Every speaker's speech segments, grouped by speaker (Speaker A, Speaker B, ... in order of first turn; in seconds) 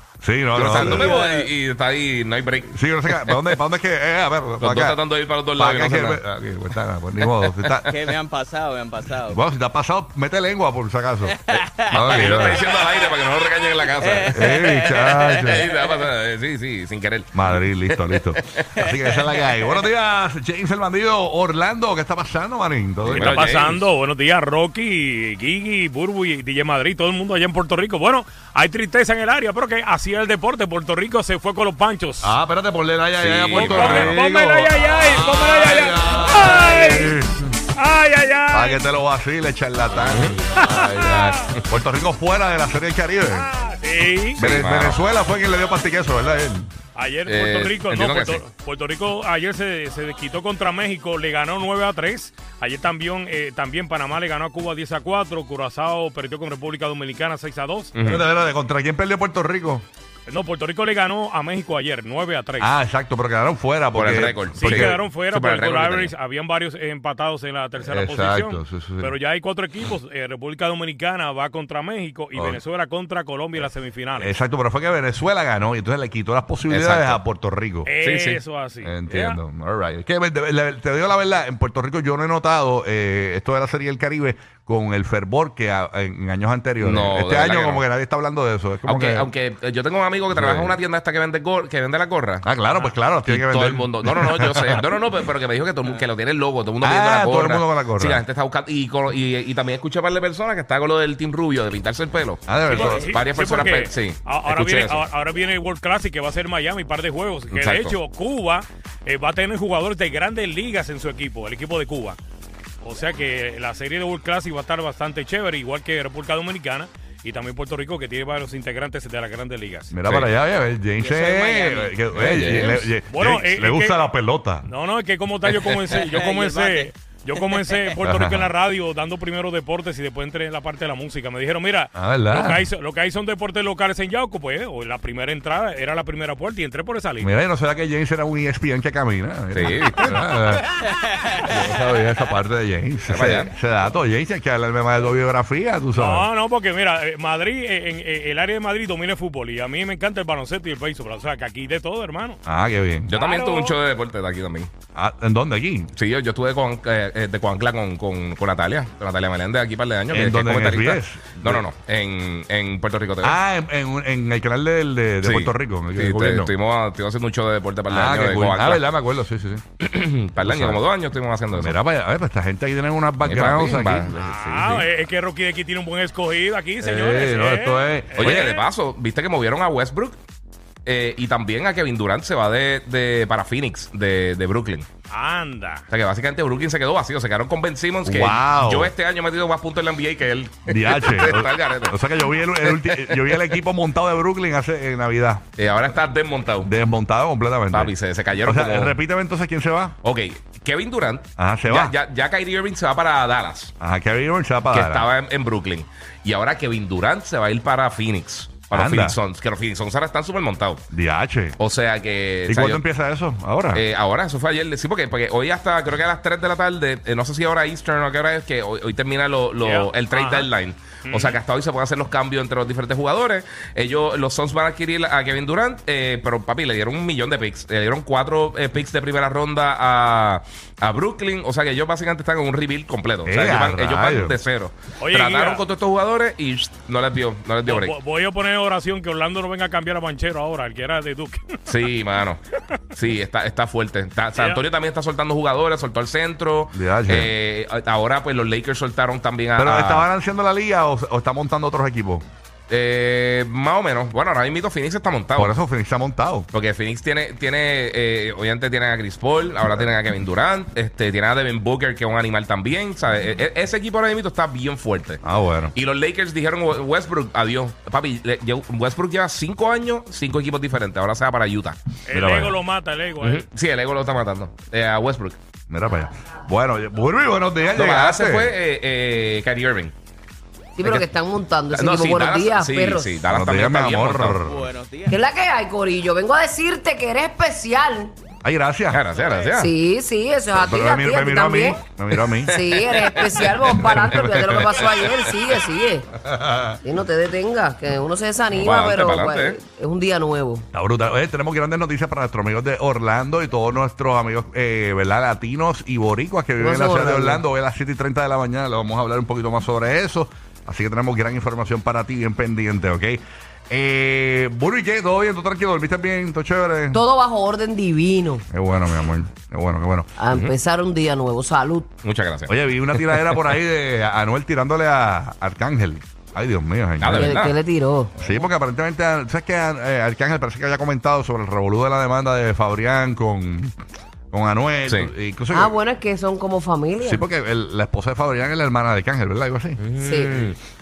Speaker A: 0.2-1.1, 2.7-5.0, 5.5-7.9, 9.3-12.6, 14.3-15.7, 17.3-23.5, 32.2-37.5, 38.5-43.5, 44.3-46.7, 58.0-59.8, 62.6-65.0, 67.8-69.1, 72.3-72.6, 74.2-77.9, 78.8-89.3, 90.3-90.8, 92.4-94.8, 96.8-98.2, 102.5-103.1, 119.9-124.7, 128.0-128.5, 131.9-132.7, 137.2-140.7, 141.4-146.3, 152.4-153.1, 154.9-155.9, 160.1-161.7, 163.2-166.5, 167.9-169.6, 170.4-170.8, 171.5-174.1, 176.8-178.5, 188.0-188.9, 190.7-195.4, 196.6-199.9, 201.4-201.9, 203.8-205.1, 208.7-209.2, 210.9-211.6, 212.5-213.8, 233.2-234.4, 246.7-247.3, 249.6-252.2, 255.3-256.5, 265.2-265.7, 272.1-272.6, 275.7-278.5, 283.3-284.7, 288.4-289.0, 290.5-292.6, 293.8-294.4, 296.2-296.8, 300.7-317.0, 318.5-320.1, 322.5-327.4, 328.2-333.7, 334.3-335.8, 337.0-339.8
Speaker B: 0.5-3.5, 4.6-6.2, 11.9-14.5, 15.4-18.7, 23.0-23.8, 33.2-34.1, 40.0-40.3, 44.4-45.0, 47.3-48.4, 57.9-58.2, 63.9-66.1, 76.7-77.2, 78.0-78.4, 86.8-87.8, 88.8-92.5, 93.2-105.0, 107.5-108.0, 120.0-120.3, 122.1-122.8, 125.7-125.9, 139.5-140.2, 143.1-143.5, 153.1-154.7, 155.9-163.3, 165.2-168.9, 169.8-171.8, 173.2-174.9, 178.2-180.2, 180.8-184.9, 185.9-193.5, 195.6-196.7, 197.7-199.0, 200.0-203.7, 204.7-210.8, 211.6-212.8, 213.7-237.9, 241.7-242.4, 242.9-250.1, 252.7-255.6, 256.5-265.2, 265.7-271.8, 273.2-275.4, 277.7-279.9, 281.7-284.4, 288.9-289.7, 292.1-295.0, 298.5-299.6, 322.0-322.5, 327.0-327.5, 339.8-340.6
Speaker C: 0.7-1.5, 7.4-9.4, 11.3-16.0, 18.8-19.8, 121.0-122.7, 125.9-128.0, 284.4-285.2
Speaker D: 23.2-32.3, 33.5-37.1, 37.7-38.8, 40.5-41.4, 43.4-44.4, 46.9-57.9, 60.3-62.7, 64.5-74.3, 77.8-79.4, 102.7-112.2, 112.8-120.0, 121.2-121.7, 123.0-124.0, 124.6-137.3, 145.9-152.4, 153.1-153.8, 174.1-178.6, 185.1-185.8, 219.6-220.5, 221.0-221.4, 235.0-235.6, 237.6-241.8, 244.3-244.6, 272.1-273.4
Speaker E: 280.8-283.1, 285.1-288.1, 289.5-291.8, 292.5-296.1, 296.8-300.6, 306.6-307.4, 316.9-318.4, 320.2-321.9, 327.1-328.2, 335.5-337.2, 340.0-340.5